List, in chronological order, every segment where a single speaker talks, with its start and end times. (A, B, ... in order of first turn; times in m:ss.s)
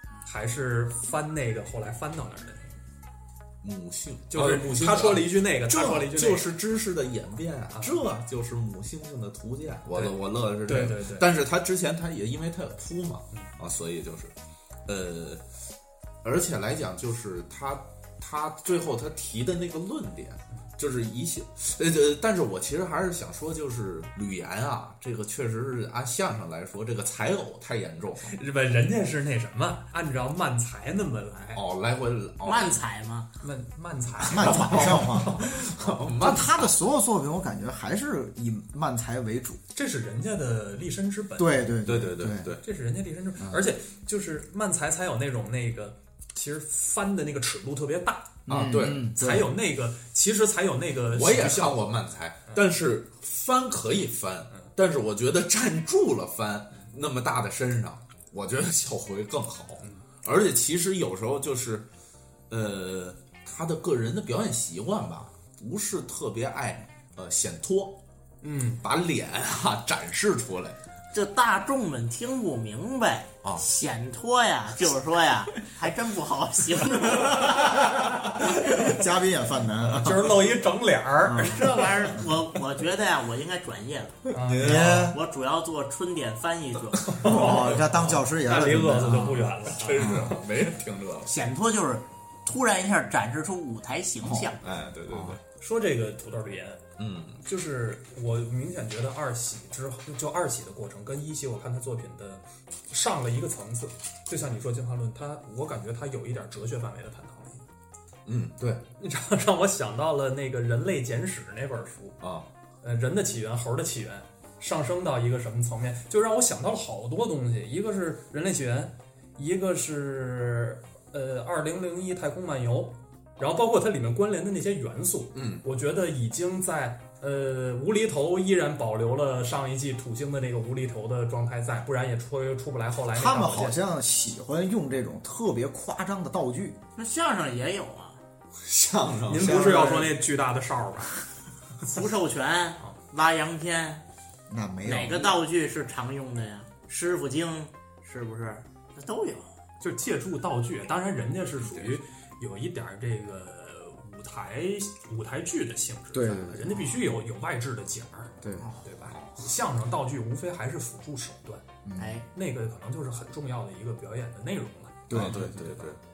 0:00.2-0:02.7 A
0:03.6-0:14.3 B
0:04.3-0:06.5 A
0:07.7-0:08.0 A
0:09.9-0:11.3 A
0:14.9-0:15.4 B
0:16.2-0:28.4 B
0:28.3-0:31.6 A
0:31.6-0:32.8 B
0:32.4-0:33.3 C
0:33.4-0:35.6 A
0:34.3-0:35.4 D
0:34.4-0:36.8 B
0:36.2-0:39.6 D
0:39.7-0:41.7 A
0:41.4-0:42.5 D
0:41.8-0:42.6 B
0:42.6-0:48.5 A
0:48.5-0:49.5 D
0:48.5-0:49.1 B
0:49.1-0:51.8 A
0:51.1-1:01.9 B
1:02.5-1:08.0 B
1:08.4-1:08.8 A
1:08.8-1:10.8 B
1:11.1-1:17.7 C
1:18.4-1:18.9 A
1:18.7-1:20.4 D
1:19.9-1:21.5 A
1:21.2-1:21.9 D
1:21.4-1:27.7 C
1:24.3-1:24.8 A
1:24.4-1:25.1 B
1:24.6-1:25.2 D
1:27.2-1:30.1 A
1:27.2-1:30.4 D
1:27.8-1:28.1 B
1:29.7-1:31.4 B
1:31.3-1:34.6 C
1:34.2-1:34.5 D
1:34.6-1:35.4 B
1:35.1-1:35.4 D
1:35.6-1:36.8 A
1:37.0-1:37.4 B
1:37.4-1:47.6 A
1:48.3-1:48.8 B
1:49.0-1:52.2 A
1:52.2-1:52.5 B
1:52.8-2:13.8 A
2:05.3-2:05.6 B
2:13.1-2:16.8 D
2:17.0-2:18.2 C
2:18.6-2:19.9 B
2:19.3-2:21.3 A
2:19.4-2:20.1 C
2:21.8-2:24.0 C
2:24.5-2:25.4 D
2:24.8-2:29.6 C
2:29.8-2:41.6 A
2:36.1-2:36.9 D
2:38.4-2:38.7 D
2:39.1-2:39.4 B
2:41.8-2:42.2 D
2:42.0-2:42.3 C
2:42.3-2:45.2 A
2:45.1-2:45.9 D
2:45.1-2:46.0 B